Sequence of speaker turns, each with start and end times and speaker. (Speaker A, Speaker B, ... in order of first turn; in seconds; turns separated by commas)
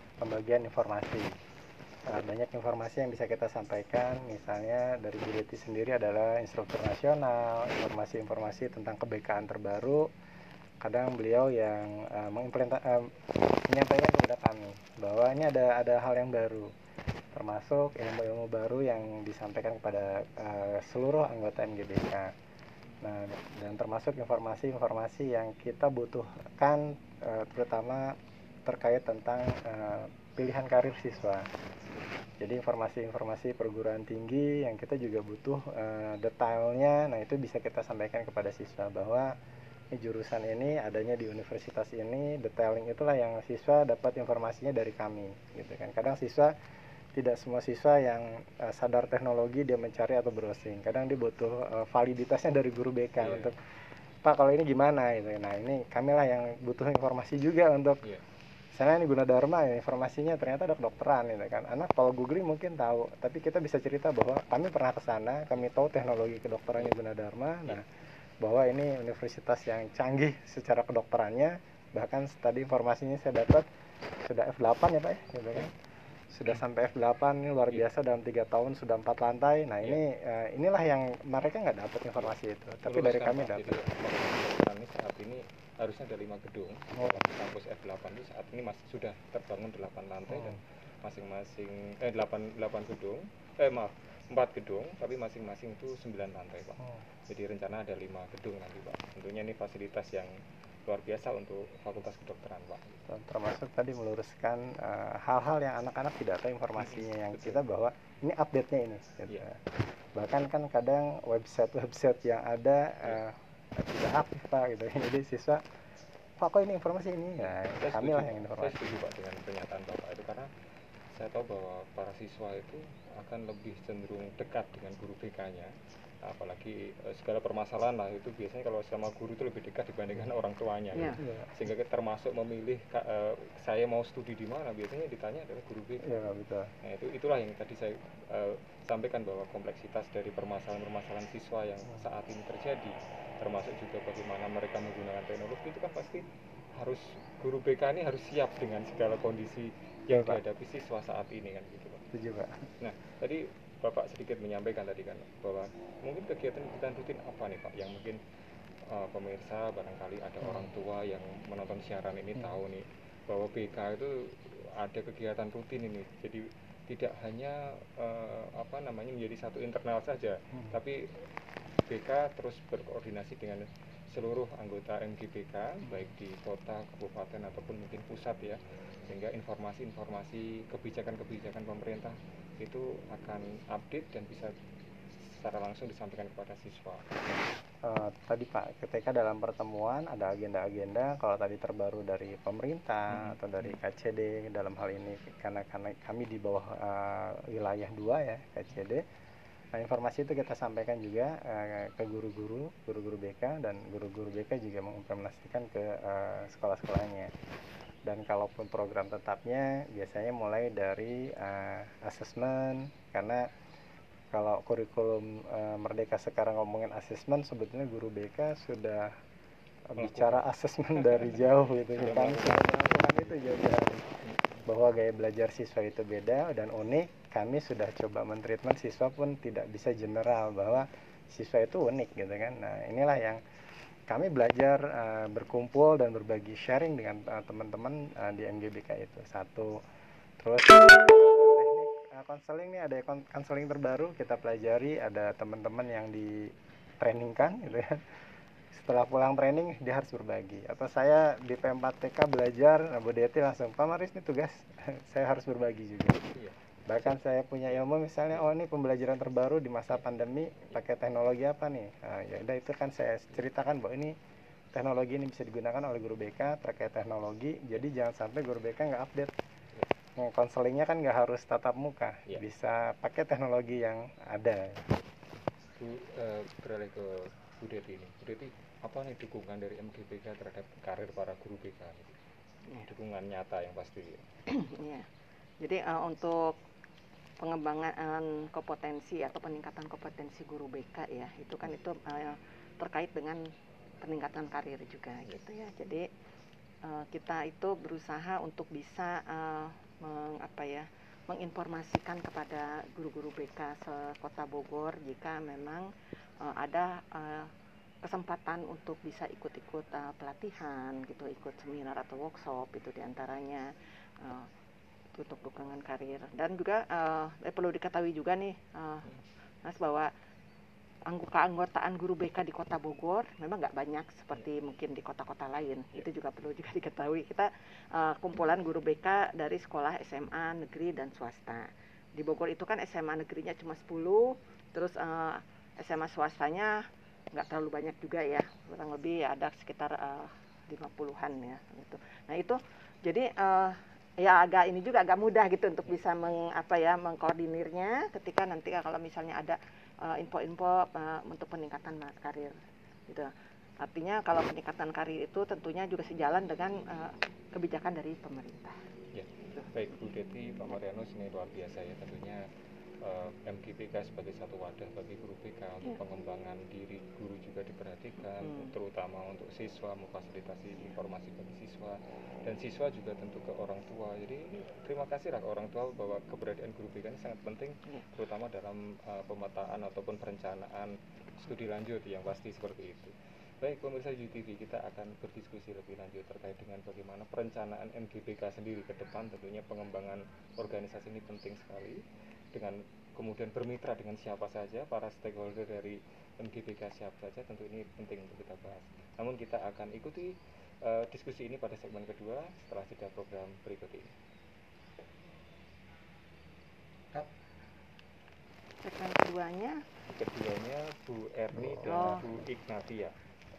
Speaker A: 0.2-1.4, Speaker A: 2.1-10.1, Speaker A: 10.8-13.1, Speaker A: 13.7-16.7, Speaker A: 17.3-22.3, Speaker A: 23.0-31.5, Speaker A: 32.4-39.3, Speaker A: 39.9-46.5, Speaker A: 47.1-53.5, Speaker B: 53.2-53.5, Speaker A: 54.2-58.0, Speaker A: 58.8-67.8, Speaker A: 68.4-73.7, Speaker A: 74.2-75.7, Speaker A: 76.3-83.8, Speaker B: 82.8-100.3, Speaker A: 90.3-90.6, Speaker B: 100.9-103.0, Speaker A: 103.1-109.6, Speaker B: 106.8-107.6, Speaker A: 110.2-115.6, Speaker A: 116.4-118.8, Speaker B: 117.8-120.5, Speaker B: 121.1-125.7, Speaker B: 126.2-136.2, Speaker A: 131.2-131.5, Speaker A: 136.0-136.7, Speaker B: 136.8-146.2, Speaker B: 146.8-152.1, Speaker A: 150.1-150.4, Speaker A: 152.1-152.7, Speaker B: 152.8-158.2, Speaker B: 158.9-164.1, Speaker A: 160.4-160.7, Speaker B: 164.8-171.0, Speaker B: 171.9-184.5, Speaker B: 185.3-187.3, Speaker A: 187.8-199.0, Speaker B: 193.1-193.8, Speaker A: 199.7-207.3, Speaker A: 208.1-213.5, Speaker A: 214.3-219.1, Speaker A: 219.9-233.4, Speaker B: 220.0-224.3, Speaker A: 234.1-239.8, Speaker A: 240.4-248.1, Speaker A: 248.7-256.3, Speaker B: 256.3-258.5, Speaker A: 256.9-264.1, Speaker A: 264.7-269.3, Speaker A: 270.2-274.9, Speaker B: 275.8-282.2, Speaker C: 282.7-282.9, Speaker B: 282.9-284.3, Speaker C: 284.5-285.1, Speaker C: 285.6-286.6, Speaker C: 287.4-293.5, Speaker C: 294.0-296.1, Speaker C: 296.8-305.9, Speaker C: 306.4-307.5, Speaker C: 308.0-313.7, Speaker C: 314.2-314.5, Speaker C: 315.1-319.1, Speaker C: 319.6-320.1, Speaker C: 321.1-352.6, Speaker C: 353.1-358.8, Speaker B: 359.1-362.4, Speaker B: 363.0-392.0, Speaker C: 368.4-368.7, Speaker B: 392.5-404.1, Speaker C: 408.8-409.8, Speaker B: 410.1-413.1, Speaker A: 411.5-412.1, Speaker C: 411.9-412.2